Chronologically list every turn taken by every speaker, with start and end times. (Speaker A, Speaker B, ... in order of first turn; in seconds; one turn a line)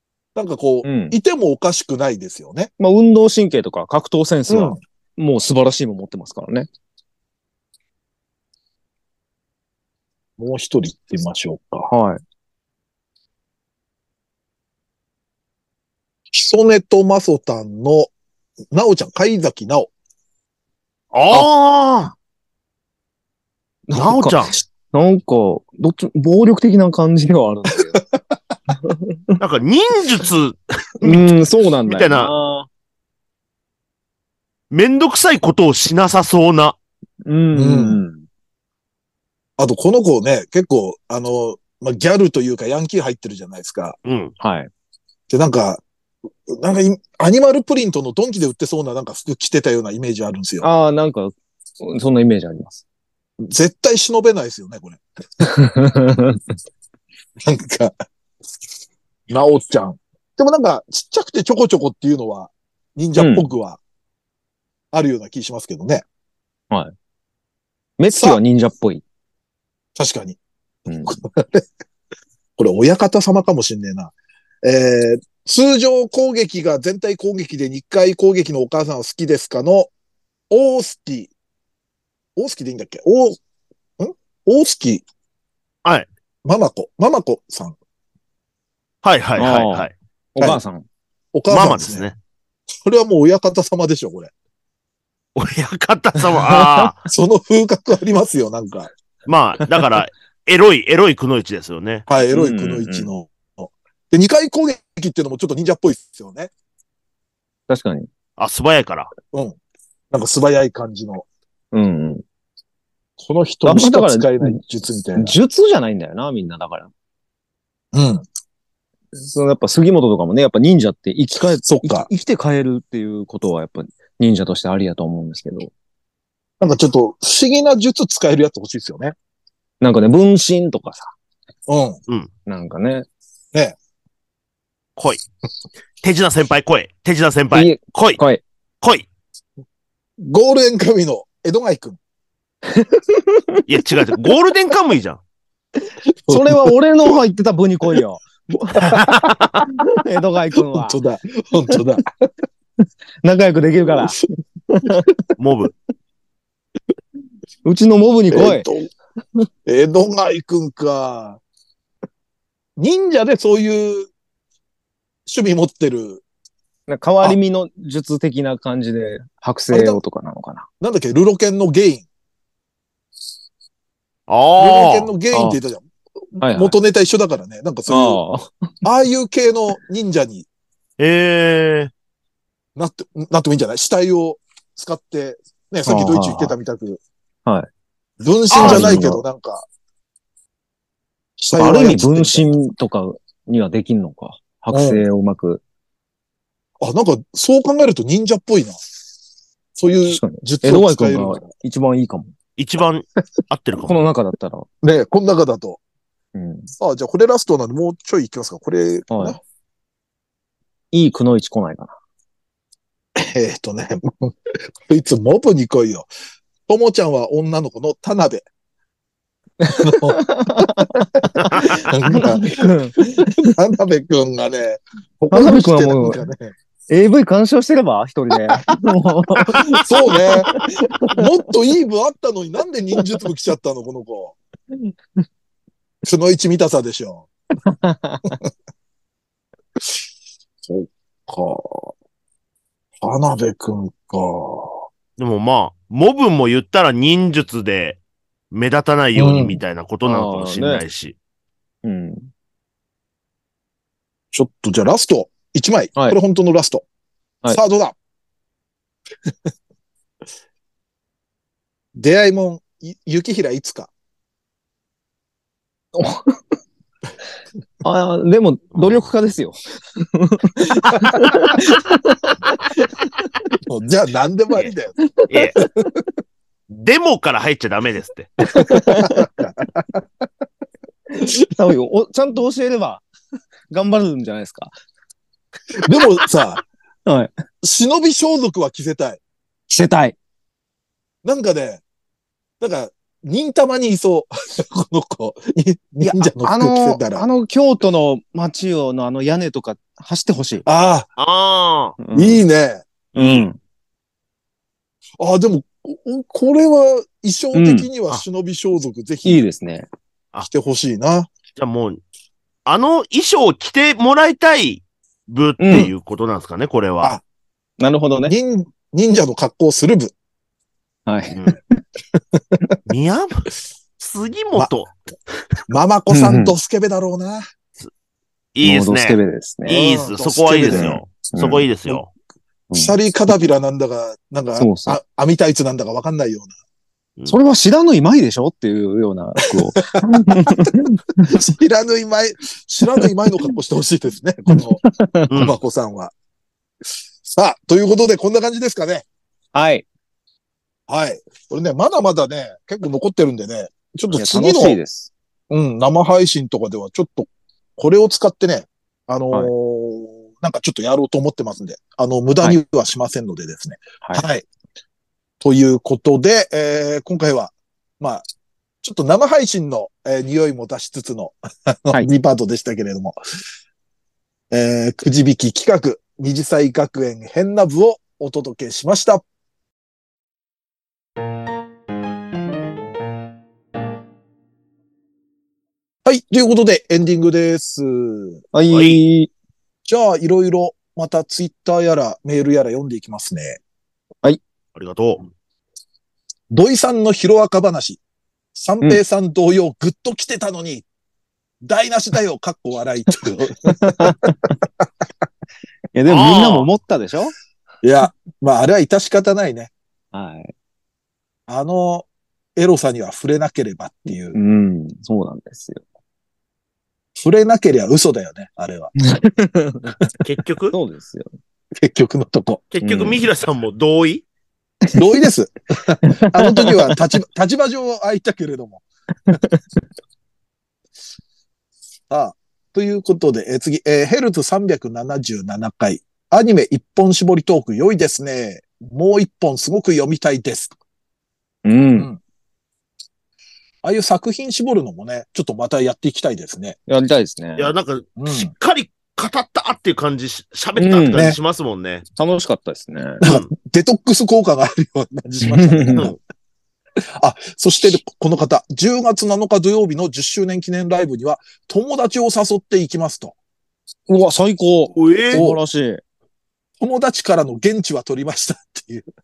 Speaker A: 0.3-2.7
Speaker B: 0.8-1.2
Speaker B: 2.8-6.7
Speaker A: 4.5-4.8
Speaker A: 10.4-11.9
Speaker B: 11.9-12.2
Speaker A: 16.3-18.1
Speaker A: 18.7-19.9
Speaker C: 21.1-22.1
Speaker B: 23.9-28.0
Speaker C: 23.9-24.6
Speaker B: 28.8-29.4
Speaker C: 29.4-31.3
Speaker B: 31.0-32.7
Speaker C: 31.9-32.3
Speaker C: 34.7-36.8
Speaker B: 37.2-38.2
Speaker A: 37.5-38.0
Speaker A: 39.6-44.0
Speaker C: 44.0-44.3
Speaker B: 44.4-44.7
Speaker A: 45.3-45.8
Speaker A: 46.5-50.7
Speaker B: 50.6-52.8
Speaker A: 53.4-55.5
Speaker B: 55.4-56.4
Speaker A: 57.4-57.9
Speaker A: 59.3-63.8
Speaker B: 63.2-63.5
Speaker A: 64.9-66.0
Speaker B: 68.0-69.0
Speaker A: 68.1-68.4
Speaker A: 70.0-71.7
Speaker B: 70.9-71.2
Speaker A: 72.6-79.9
Speaker A: 80.5-81.3
Speaker A: 82.4-83.4
Speaker A: 84.0-85.0
Speaker A: 86.5-87.8
Speaker C: 89.0-89.9
Speaker B: 89.4-90.9
Speaker A: 91.3-92.1
Speaker C: 91.5-92.2
Speaker A: 92.8-94.3
Speaker C: 95.4-97.0
Speaker B: 96.3-96.8
Speaker A: 97.1-98.9
Speaker C: 99.3-102.0
Speaker A: 102.1-106.5
Speaker B: 102.3-103.1
Speaker B: 107.7-108.1
Speaker C: 108.4-109.1
Speaker A: 109.3-109.6
Speaker A: 110.1-111.3
Speaker B: 111.7-112.2
Speaker A: 113.2-115.4
Speaker B: 113.7-114.6
Speaker B: 115.2-116.9
Speaker A: 117.9-118.2
Speaker B: 119.2-125.7
Speaker A: 121.7-122.1
Speaker A: 126.6-129.2
Speaker B: 129.8-131.1
Speaker A: 131.7-132.0
Speaker B: 132.5-133.1
Speaker C: 135.0-135.2
Speaker C: 136.0-138.2
Speaker B: 137.5-138.4
Speaker A: 140.2-142.0
Speaker B: 142.7-143.7
Speaker C: 143.7-145.2
Speaker A: 146.3-146.7
Speaker B: 146.3-149.0
Speaker C: 148.8-149.6
Speaker A: 148.8-149.3
Speaker B: 149.8-151.0
Speaker A: 150.7-152.1
Speaker B: 153.2-155.1
Speaker C: 155.4-155.7
Speaker B: 157.7-158.7
Speaker A: 158.3-158.9
Speaker A: 159.7-161.4
Speaker A: 162.8-164.1
Speaker A: 165.3-166.2
Speaker B: 166.9-170.7
Speaker A: 169.7-170.0
Speaker A: 170.8-172.1
Speaker C: 174.3-175.1
Speaker A: 174.6-178.2
Speaker B: 175.3-175.6
Speaker B: 176.4-176.8
Speaker B: 177.9-178.7
Speaker A: 178.8-180.5
Speaker C: 181.0-181.9
Speaker A: 182.8-187.0
Speaker B: 185.9-186.5
Speaker A: 188.2-189.7
Speaker C: 188.5-189.0
Speaker B: 188.6-189.2
Speaker A: 191.4-192.6
Speaker B: 191.6-195.6
Speaker A: 194.7-195.1
Speaker A: 196.8-198.8
Speaker A: 199.8-201.4
Speaker B: 200.1-202.3
Speaker C: 202.6-204.0
Speaker B: 203.8-204.7
Speaker A: 204.8-205.8
Speaker B: 206.3-206.7
Speaker A: 206.8-209.4
Speaker B: 209.1-209.4
Speaker B: 210.9-211.9
Speaker A: 213.2-216.1
Speaker A: 216.7-218.4
Speaker B: 219.6-223.5
Speaker A: 219.8-226.5
Speaker B: 225.3-226.2
Speaker B: 226.9-231.2
Speaker A: 229.5-230.5
Speaker A: 231.1-234.4
Speaker A: 236.0-237.3
Speaker B: 237.7-238.4
Speaker A: 240.7-241.9
Speaker A: 243.0-244.9
Speaker C: 245.2-248.0
Speaker C: 248.5-251.2
Speaker A: 249.2-249.6
Speaker B: 250.1-250.8
Speaker B: 251.8-252.3
Speaker A: 254.3-256.9
Speaker A: 257.5-258.0
Speaker A: 261.9-263.9
Speaker B: 265.9-266.4
Speaker B: 267.8-272.9
Speaker C: 268.8-269.1
Speaker A: 273.7-274.9
Speaker B: 275.0-275.6
Speaker C: 275.3-275.6
Speaker C: 276.7-278.3
Speaker B: 278.5-279.3
Speaker A: 278.6-280.0
Speaker B: 281.2-283.1
Speaker B: 283.7-284.7
Speaker A: 285.8-286.6
Speaker B: 287.1-287.3
Speaker A: 287.6-289.2
Speaker B: 289.7-290.2
Speaker A: 291.2-291.8
Speaker A: 292.6-297.3
Speaker B: 296.0-300.6
Speaker A: 300.7-301.1
Speaker C: 301.2-302.0
Speaker B: 302.0-302.4
Speaker A: 302.1-303.4
Speaker B: 303.1-303.6
Speaker A: 305.2-309.4
Speaker B: 307.5-307.9
Speaker B: 309.2-309.9
Speaker A: 310.4-311.3
Speaker C: 311.6-312.0
Speaker C: 312.7-317.1
Speaker B: 315.6-315.9
Speaker B: 317.8-318.3
Speaker A: 318.3-320.1
Speaker B: 321.1-321.4
Speaker C: 321.3-321.6
Speaker A: 322.3-322.8
Speaker C: 322.9-323.5
Speaker C: 324.0-324.9
Speaker A: 325.7-327.4
Speaker B: 326.1-326.6
Speaker C: 328.6-332.1
Speaker B: 328.6-329.8
Speaker A: 329.7-330.9
Speaker B: 330.7-331.7
Speaker A: 332.7-336.5
Speaker B: 334.6-335.0
Speaker B: 337.3-341.4
Speaker A: 339.8-344.8
Speaker B: 344.5-345.3
Speaker C: 345.3-345.6
Speaker A: 345.3-346.1
Speaker A: 347.2-349.1
Speaker B: 349.5-349.9
Speaker A: 350.9-354.8
Speaker B: 354.1-355.1
Speaker A: 355.5-364.5
Speaker A: 365.4-368.3
Speaker A: 368.8-373.2
Speaker A: 374.5-379.2
Speaker A: 386.1-388.4
Speaker B: 388.5-389.3
Speaker C: 388.7-389.0
Speaker A: 389.9-393.6
Speaker C: 394.8-395.3
Speaker A: 396.5-398.0
Speaker A: 398.6-400.9
Speaker A: 401.6-404.9
Speaker B: 403.7-404.6
Speaker B: 405.9-407.3
Speaker C: 406.1-406.7
Speaker A: 407.8-409.7
Speaker B: 410.1-410.5
Speaker A: 411.5-414.4
Speaker B: 414.3-415.8
Speaker A: 417.2-418.9
Speaker B: 419.0-419.9
Speaker C: 420.2-420.8
Speaker B: 420.7-421.3
Speaker A: 421.8-422.6
Speaker C: 422.7-424.2
Speaker B: 422.8-423.2
Speaker A: 424.9-428.8
Speaker B: 426.1-427.0
Speaker B: 429.3-429.6
Speaker A: 432.1-440.7
Speaker B: 441.6-442.1
Speaker A: 443.8-446.8
Speaker B: 446.9-447.7
Speaker C: 447.6-452.1
Speaker A: 448.2-448.5
Speaker B: 450.8-451.4
Speaker B: 452.2-453.2
Speaker A: 453.2-456.1
Speaker C: 453.2-453.5
Speaker B: 455.4-456.1
Speaker A: 457.2-463.4
Speaker B: 464.1-466.0
Speaker C: 465.0-465.5
Speaker A: 465.3-465.6
Speaker A: 466.8-469.1